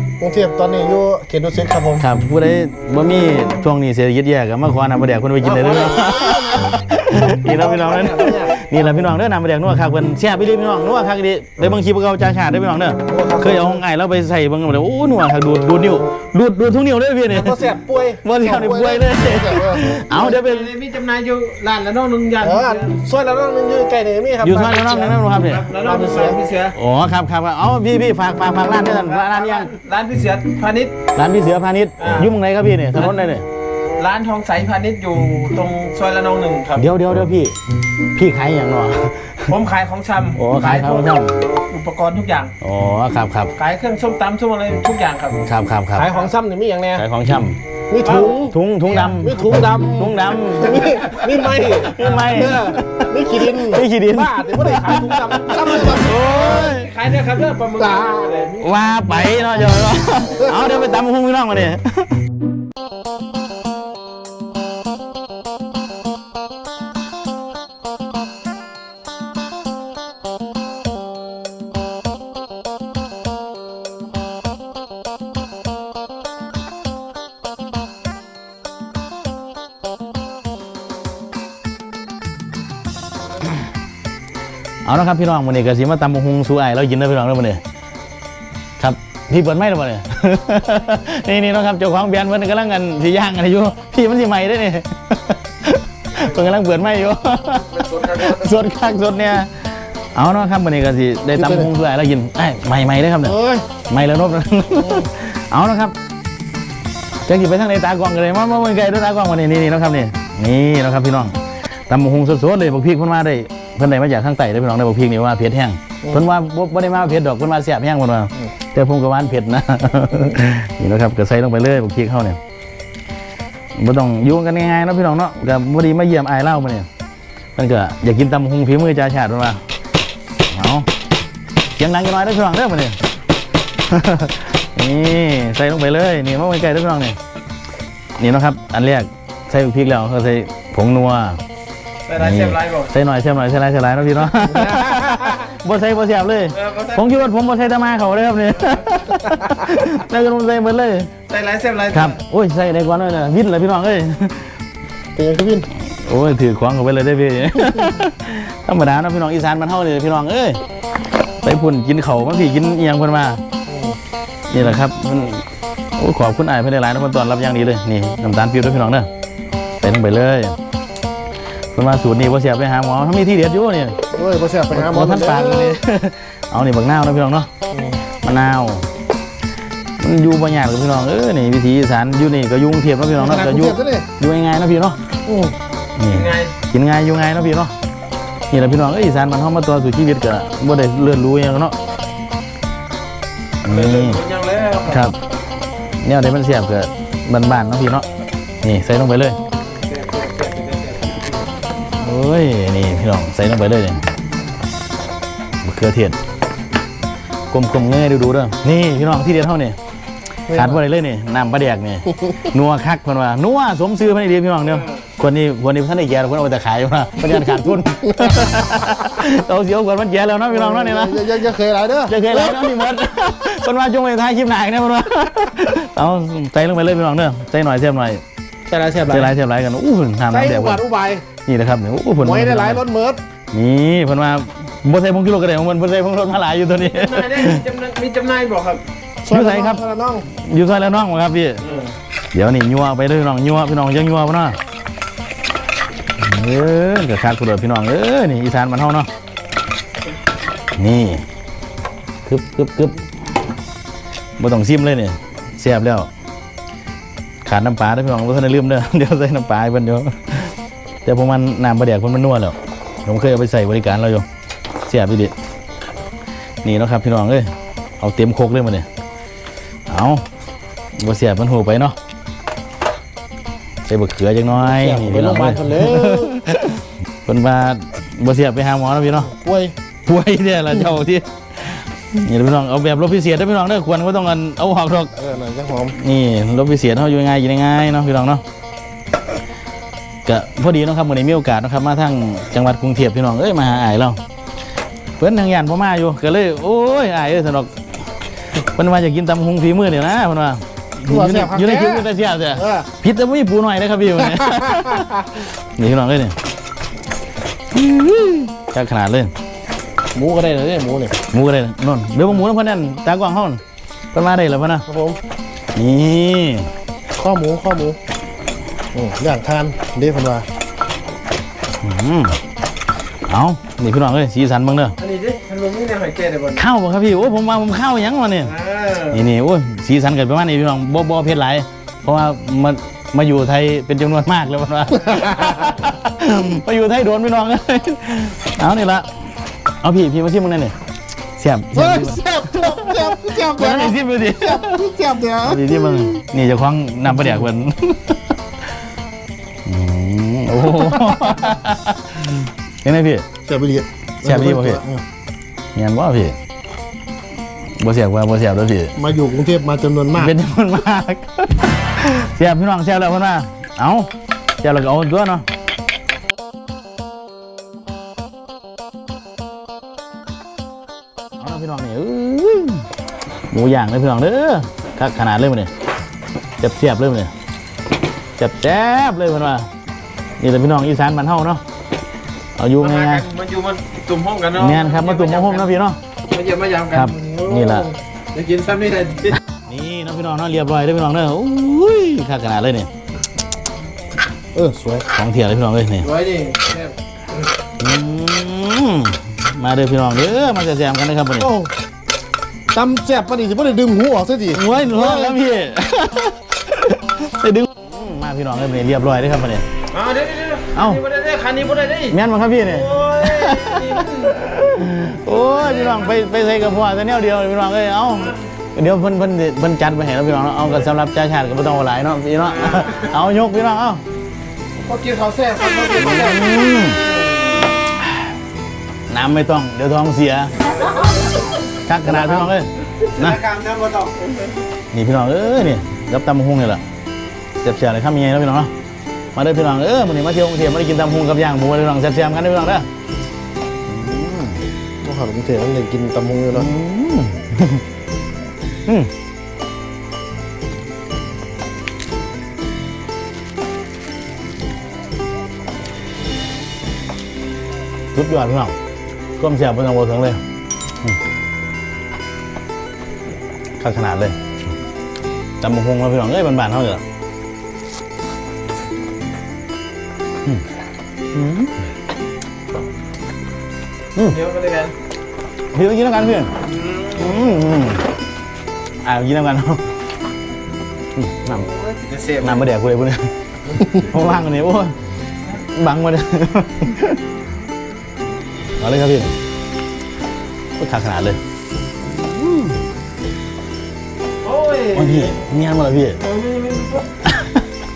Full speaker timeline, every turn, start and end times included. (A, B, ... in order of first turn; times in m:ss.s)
0:00.2-0:02.1 A
0:02.0-0:17.7 B
0:05.4-0:06.8 A
0:07.3-0:08.8 A
0:13.1-0:13.8 A
0:17.3-0:20.1 A
0:18.2-0:20.7 B
0:20.1-0:22.9 C
0:22.4-0:25.2 A
0:24.4-0:25.7 B
0:25.3-0:26.8 C
0:25.8-0:26.4 A
0:26.8-0:29.7 B
0:28.8-0:31.0 C
0:31.2-0:33.4 B
0:32.0-0:32.3 C
0:34.0-0:36.9 C
0:36.8-0:37.6 B
0:38.2-0:39.5 B
0:39.5-0:42.5 C
0:40.4-0:41.4 B
0:42.6-0:43.5 B
0:43.6-0:45.4 C
0:45.4-0:46.1 B
0:46.0-0:47.0 A
0:46.0-0:46.3 C
0:47.0-0:47.6 B
0:47.9-0:56.2 A
0:48.0-0:49.9 C
0:48.5-0:56.9 B
0:50.6-0:52.8 C
0:55.8-1:00.1 C
0:57.8-0:58.3 A
0:58.6-1:02.2 B
1:24.8-1:27.6 B
1:28.8-1:46.0 B
1:41.4-1:41.7 A
1:43.2-1:43.7 A
1:47.2-1:51.4 B
1:51.9-2:02.4 B
2:03.8-2:06.9 B
2:07.6-2:09.6 B
2:10.5-2:10.9 B
2:11.8-2:13.0 B
2:13.9-2:17.2 B
2:18.2-2:21.4 B
2:22.1-2:22.9 C
2:22.2-2:31.1 B
2:24.5-2:25.5 C
2:26.6-2:27.3 C
2:31.3-2:32.2 C
2:31.9-2:34.5 B
2:35.2-2:35.7 A
2:35.9-2:40.6 B
2:41.4-2:43.4 B
2:43.7-2:44.0 A
2:44.5-2:45.4 B
2:46.0-2:49.1 B
2:49.8-2:50.6 B
2:51.7-2:54.0 B
2:54.1-2:55.8 A
2:54.7-2:57.5 B
2:57.7-2:58.0 A
2:58.2-2:58.9 B
3:00.0-3:05.0 B
3:03.2-3:04.1 A
3:05.3-3:05.6 A
3:06.0-3:07.7 B
3:06.1-3:06.5 C
3:08.5-3:11.8 B
3:13.6-3:14.2 B
3:13.6-3:15.1 C
3:14.9-3:15.2 B
3:16.0-3:18.1 B
3:18.6-3:19.4 B
3:19.7-3:21.4 C
3:22.0-3:24.0 B
3:25.6-3:26.2 B
3:27.5-3:29.8 B
3:30.5-3:30.8 A
3:30.5-3:41.5 B
3:38.0-3:38.8 A
3:40.5-3:42.7 A
3:42.1-3:48.2 B
3:48.7-3:49.3 C
3:49.1-3:50.8 B
3:50.3-3:51.2 A
3:51.4-3:52.8 B
3:52.2-3:53.2 A
3:53.5-3:57.6 B
3:56.8-3:58.8 C
3:59.2-4:00.3 A
3:59.3-4:01.7 B
4:02.3-4:04.6 B
4:06.2-4:09.1 B
4:10.8-4:11.2 B
4:12.2-4:13.0 B
4:14.4-4:16.1 B
4:17.4-4:20.5 B
4:21.0-4:24.3 B
4:24.8-4:25.3 B
4:26.6-4:28.9 B
4:29.9-4:30.2 B
4:31.0-4:32.0 B
4:33.9-4:39.3 B
4:34.5-4:36.3 A
4:39.2-4:39.7 A
4:40.1-4:45.1 B
4:45.2-4:46.0 A
4:45.9-4:48.4 B
4:50.3-4:54.2 B
4:55.2-4:57.7 B
4:58.6-5:06.4 B
5:01.1-5:02.9 A
5:04.3-5:05.2 A
5:07.7-5:09.3 B
5:10.1-5:11.2 A
5:11.3-5:13.6 B
5:14.1-5:14.9 B
5:14.9-5:15.2 A
5:15.8-5:16.7 B
5:17.2-5:18.0 A
5:18.9-5:20.5 A
5:21.8-5:22.4 B
5:23.3-5:25.0 B
5:25.0-5:26.6 C
5:26.6-5:39.1 B
5:28.4-5:29.3 C
5:35.1-5:35.4 A
5:39.8-5:40.8 B
5:41.4-5:44.8 B
5:41.7-5:46.2 A
5:45.4-5:48.2 B
5:47.1-5:47.4 A
5:49.6-5:53.3 B
5:53.5-5:55.0 A
5:54.2-5:54.8 B
5:55.8-5:56.4 B
5:57.8-5:59.0 B
5:59.0-6:00.4 A
6:00.2-6:04.1 B
6:04.6-6:05.5 B
6:11.4-6:12.9 B
6:13.5-6:15.7 B
6:16.6-6:17.3 B
6:18.4-6:19.7 B
6:20.4-6:21.6 B
6:22.6-6:23.3 B
6:22.8-6:25.7 C
6:24.5-6:26.0 B
6:26.3-6:29.4 C
6:26.9-6:27.9 B
6:29.7-6:32.9 B
6:34.5-6:35.1 A
6:35.1-6:36.1 B
6:36.0-6:37.4 C
6:37.8-6:41.5 B
6:41.4-6:41.7 A
6:42.7-6:45.4 A
6:44.5-6:49.6 B
6:49.9-6:54.4 C
6:50.7-6:51.0 B
6:52.1-7:04.0 B
6:55.5-6:56.1 C
7:02.5-7:03.1 C
7:04.8-7:07.6 C
7:06.0-7:07.0 B
7:09.1-7:10.7 B
7:10.7-7:11.4 C
7:11.9-7:13.4 B
7:12.1-7:12.5 A
7:13.1-7:14.4 C
7:14.9-7:16.8 B
7:17.6-7:18.7 B
7:19.4-7:22.9 B
7:23.9-7:24.6 B
7:25.0-7:26.7 A
7:26.5-7:27.8 B
7:38.1-7:38.8 B
7:39.4-7:40.4 B
7:43.8-7:44.4 B
7:45.6-7:47.0 B
7:51.3-7:51.7 B
7:54.3-7:54.9 C
7:55.7-7:56.6 B
7:56.6-7:57.6 C
7:57.1-7:58.1 B
7:59.0-7:59.8 B
8:01.2-8:01.7 B
8:01.6-8:02.7 C
8:02.4-8:05.0 B
8:05.6-8:07.2 B
8:08.8-8:09.4 B
8:10.8-8:11.4 B
8:12.1-8:12.8 B
8:14.4-8:15.4 C
8:14.9-8:16.2 B
8:16.2-8:17.1 C
8:17.3-8:17.6 B